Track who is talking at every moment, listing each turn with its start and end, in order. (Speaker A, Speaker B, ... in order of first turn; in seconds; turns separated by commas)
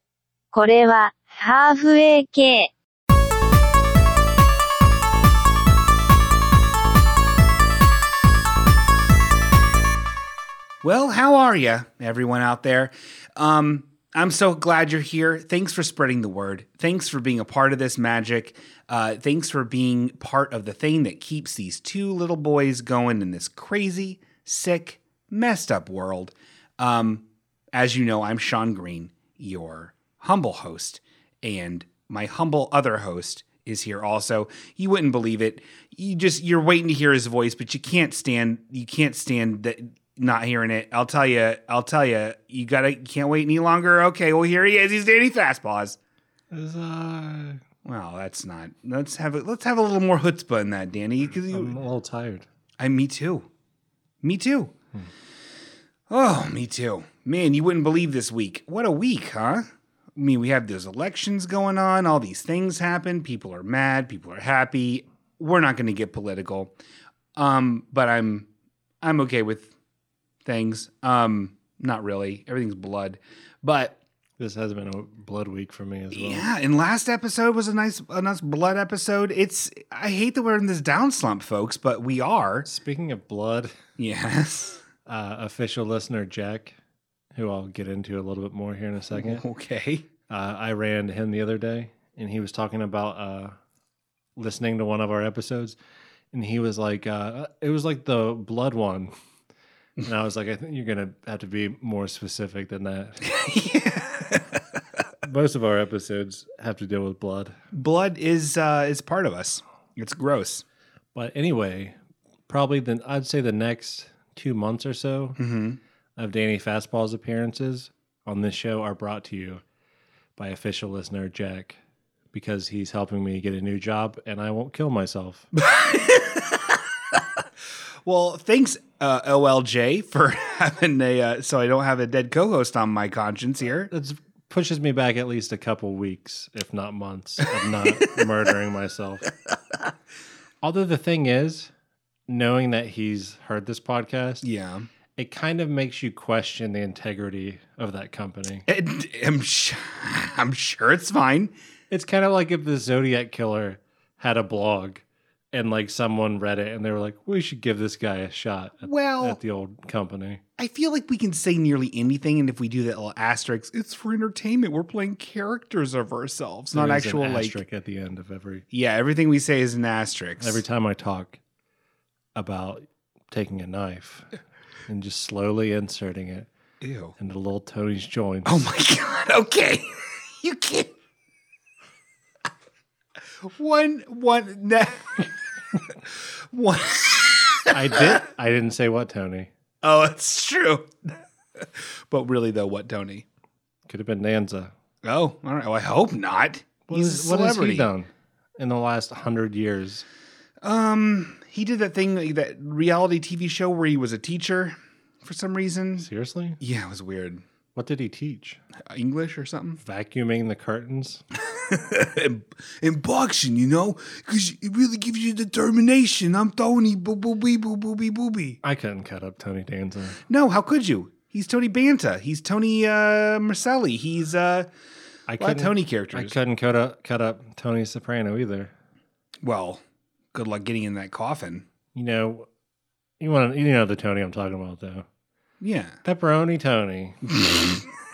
Speaker A: 0.5-2.7, Speaker B: 10.8-46.0, Speaker C: 46.5-47.6, Speaker B: 47.8-51.8, Speaker C: 51.5-52.5, Speaker B: 52.8-53.5, Speaker B: 54.2-54.7, Speaker B: 56.1-66.7, Speaker B: 67.4-68.5, Speaker B: 69.0-69.7, Speaker B: 70.5-74.0, Speaker C: 74.4-76.5, Speaker B: 76.1-82.7, Speaker C: 82.7-83.7, Speaker B: 84.0-84.8, Speaker C: 85.1-86.8, Speaker C: 87.3-89.4, Speaker B: 89.1-90.1, Speaker C: 90.3-93.6, Speaker C: 94.4-95.8, Speaker C: 96.3-99.1, Speaker C: 100.0-103.3, Speaker B: 103.2-104.8, Speaker C: 105.2-107.6, Speaker B: 107.7-110.6, Speaker C: 111.2-112.0, Speaker C: 112.5-115.4, Speaker B: 115.4-115.8, Speaker C: 116.2-119.6, Speaker C: 120.4-121.8, Speaker C: 122.3-125.5, Speaker B: 125.5-127.2, Speaker B: 128.1-133.9, Speaker C: 133.9-139.3, Speaker C: 140.6-141.7, Speaker C: 142.3-144.4, Speaker B: 144.4-144.9, Speaker C: 145.2-148.7, Speaker B: 148.7-151.5, Speaker C: 151.9-160.4, Speaker B: 158.8-159.4, Speaker B: 160.6-167.6, Speaker C: 166.7-168.6, Speaker B: 168.7-170.6, Speaker C: 170.4-171.4, Speaker C: 172.3-174.3, Speaker C: 174.9-176.5, Speaker B: 176.8-177.2, Speaker C: 177.2-178.7, Speaker B: 178.5-180.9, Speaker B: 183.4-185.3, Speaker B: 185.9-188.2, Speaker C: 187.7-189.5, Speaker B: 189.8-193.3, Speaker C: 193.9-194.7, Speaker B: 195.0-197.9, Speaker C: 196.9-200.1, Speaker B: 200.6-206.1, Speaker C: 206.0-206.6, Speaker B: 206.6-207.4, Speaker C: 207.8-208.6, Speaker B: 208.8-209.8, Speaker C: 209.8-211.2, Speaker B: 211.4-218.6, Speaker C: 218.6-220.2, Speaker B: 220.3-224.7, Speaker C: 225.3-228.7, Speaker B: 225.4-226.3, Speaker B: 229.4-229.8, Speaker B: 230.3-231.7, Speaker C: 231.9-232.5, Speaker C: 233.2-235.1, Speaker B: 235.6-236.0, Speaker C: 236.0-237.2, Speaker B: 237.3-237.9